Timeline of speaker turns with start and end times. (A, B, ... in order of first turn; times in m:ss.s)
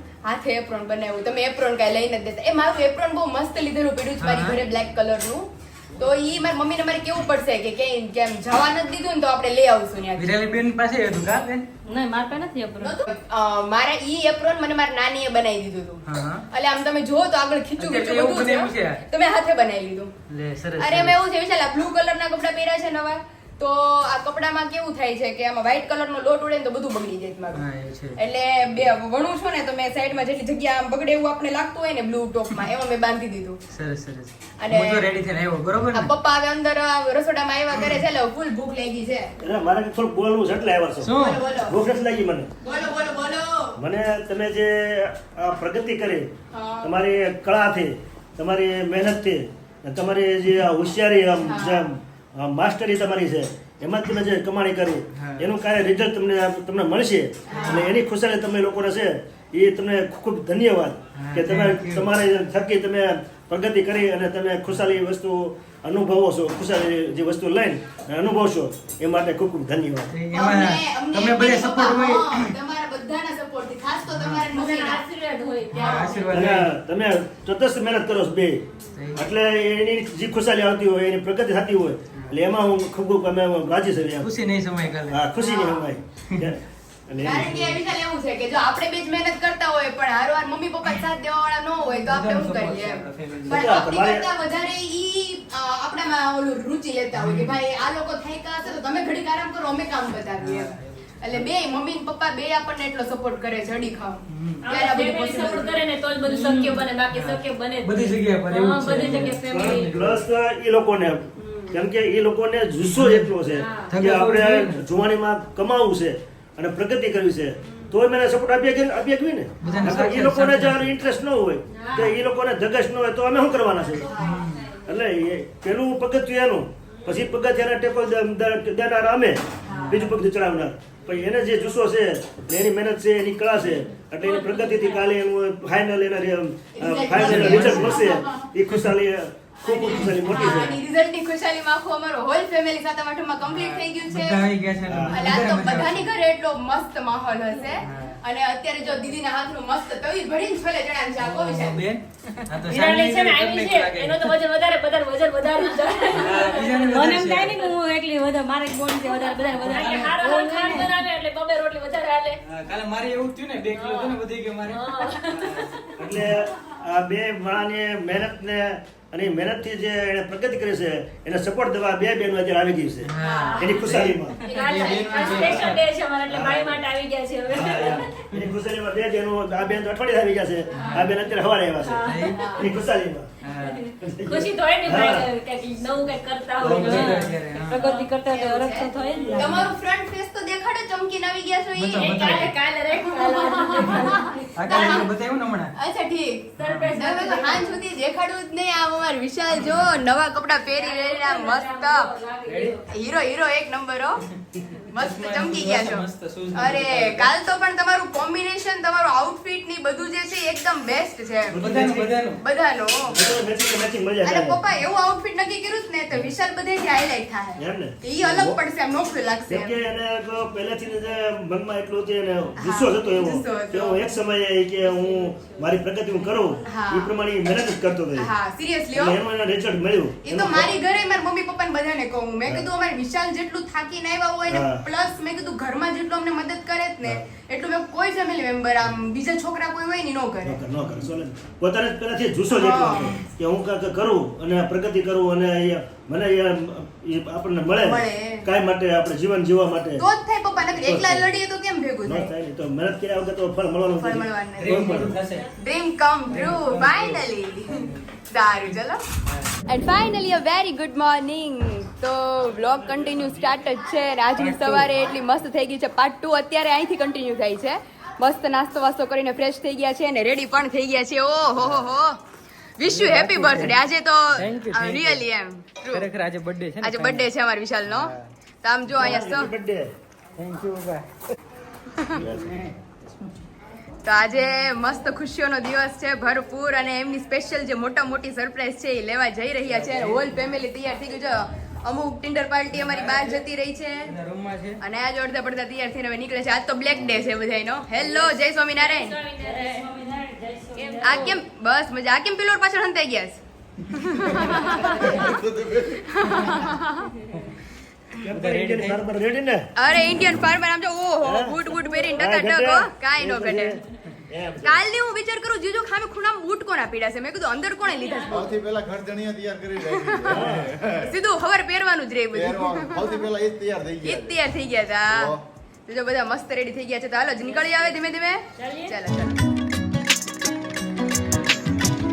0:00.2-0:10.3 A
0:04.2-0:04.6 B
0:10.2-0:11.7 B
0:11.9-0:13.0 C
0:12.8-0:20.1 A
0:16.1-0:16.5 B
0:17.8-0:19.0 B
0:20.3-0:21.2 B
0:20.8-0:27.6 A
0:27.5-0:28.2 B
0:28.2-0:33.6 A
0:33.7-0:36.1 B
0:34.6-0:35.1 A
0:35.9-0:39.3 A
0:39.4-0:42.5 D
0:41.0-0:41.5 B
0:41.1-0:41.8 A
0:42.6-0:43.8 A
0:43.8-0:46.3 D
0:46.5-0:47.0 A
0:46.8-1:10.1 D
0:51.4-0:51.9 A
0:55.1-0:55.5 B
0:57.5-0:57.9 A
0:57.6-0:57.9 B
1:01.2-1:02.1 B
1:10.1-1:12.5 B
1:10.3-1:15.0 A
1:14.1-1:14.5 B
1:14.5-1:16.5 C
1:15.7-1:16.7 B
1:15.8-1:16.2 A
1:16.3-1:24.3 D
1:19.0-1:19.3 B
1:24.2-1:25.3 B
1:25.1-1:27.8 D
1:25.4-1:25.8 A
1:27.2-1:45.8 A
1:32.0-1:33.8 B
1:33.5-1:34.3 D
1:37.2-1:37.6 B
1:40.4-1:41.5 B
1:44.3-1:44.7 B
1:44.6-1:50.0 C
1:46.4-1:50.3 B
1:49.0-2:04.2 D
1:52.9-1:53.3 B
1:53.5-1:54.0 C
1:53.9-1:54.8 B
1:59.6-2:00.9 B
2:01.7-2:02.2 C
2:04.0-2:04.8 C
2:04.0-2:04.5 A
2:04.2-2:04.7 B
2:04.7-2:20.8 D
2:09.6-2:10.1 A
2:09.7-2:10.1 B
2:14.2-2:15.1 C
2:16.7-2:18.5 A
2:17.1-2:18.0 B
2:19.6-2:24.5 A
2:23.5-2:26.1 B
2:24.8-2:25.2 D
2:25.1-2:31.8 A
2:27.8-2:28.2 B
2:31.2-2:34.3 B
2:32.6-2:42.4 C
2:36.1-2:37.7 B
2:39.5-2:40.9 B
2:42.4-2:46.3 B
2:43.7-2:46.1 C
2:46.0-2:54.4 D
2:53.0-2:55.8 B
2:53.2-2:58.3 C
2:53.2-2:53.6 A
2:54.5-2:55.6 A
2:56.3-2:56.8 D
2:57.5-3:03.3 D
2:57.7-2:58.5 B
3:00.7-3:01.1 B
3:01.8-3:02.8 C
3:02.1-3:02.5 B
3:02.3-3:02.7 A
3:03.4-3:03.8 B
3:03.6-3:09.7 C
3:04.0-3:05.3 D
3:06.6-3:07.9 B
3:06.6-3:07.1 D
3:08.2-3:15.1 A
3:11.7-3:12.6 B
3:11.9-3:15.0 C
3:14.6-3:15.8 B
3:15.7-3:22.1 A
3:16.6-3:16.9 B
3:16.6-3:17.8 C
3:20.7-3:22.9 C
3:22.5-3:22.8 B
3:22.9-3:24.2 A
3:24.9-3:31.6 A
3:25.0-3:27.3 B
3:31.5-3:32.2 D
3:31.6-3:32.4 B
3:32.3-3:33.2 A
3:33.1-3:34.6 D
3:34.2-3:39.8 A
3:37.6-3:38.6 D
3:39.5-3:48.3 D
3:42.6-3:44.0 A
3:44.8-3:46.6 C
3:46.7-3:47.1 A
3:48.2-3:49.2 A
3:48.9-3:50.7 D
3:50.2-4:00.6 A
3:54.5-3:54.8 D
4:00.4-4:10.0 D
4:02.5-4:03.3 A
4:07.8-4:08.5 A
4:10.0-4:12.3 A
4:10.8-4:11.4 D
4:12.1-4:15.2 D
4:14.0-4:19.0 A
4:14.6-4:15.5 B
4:16.3-4:17.3 B
4:19.7-4:32.2 A
4:24.4-4:24.9 B
4:32.8-4:36.1 A
4:32.9-4:33.8 B
4:34.3-4:35.2 B
4:35.9-4:37.3 B
4:36.8-4:39.5 A
4:37.9-4:38.3 B
4:38.9-4:39.9 D
4:40.4-4:41.1 B
4:41.9-4:42.2 A
4:42.1-4:42.6 D
4:42.3-4:42.7 B
4:44.0-4:54.1 A
4:49.7-4:50.3 B
4:52.7-4:53.4 B
4:54.1-4:54.8 B
4:54.8-4:59.2 A
4:58.0-5:01.4 C
5:01.0-5:05.4 A
5:04.9-5:06.2 E
5:05.9-5:07.1 A
5:08.2-5:09.7 D
5:08.3-5:09.0 B
5:09.8-5:13.8 A
5:11.2-5:11.6 D
5:12.1-5:14.8 D
5:14.6-5:18.5 A
5:17.8-5:18.5 C
5:18.3-5:21.1 E
5:19.9-5:20.4 A
5:20.3-5:20.7 D
5:21.0-5:23.3 A
5:22.3-5:24.4 E
5:24.0-5:25.3 A
5:25.1-5:25.4 E
5:25.9-5:29.4 A
5:27.4-5:27.9 C
5:28.6-5:29.0 C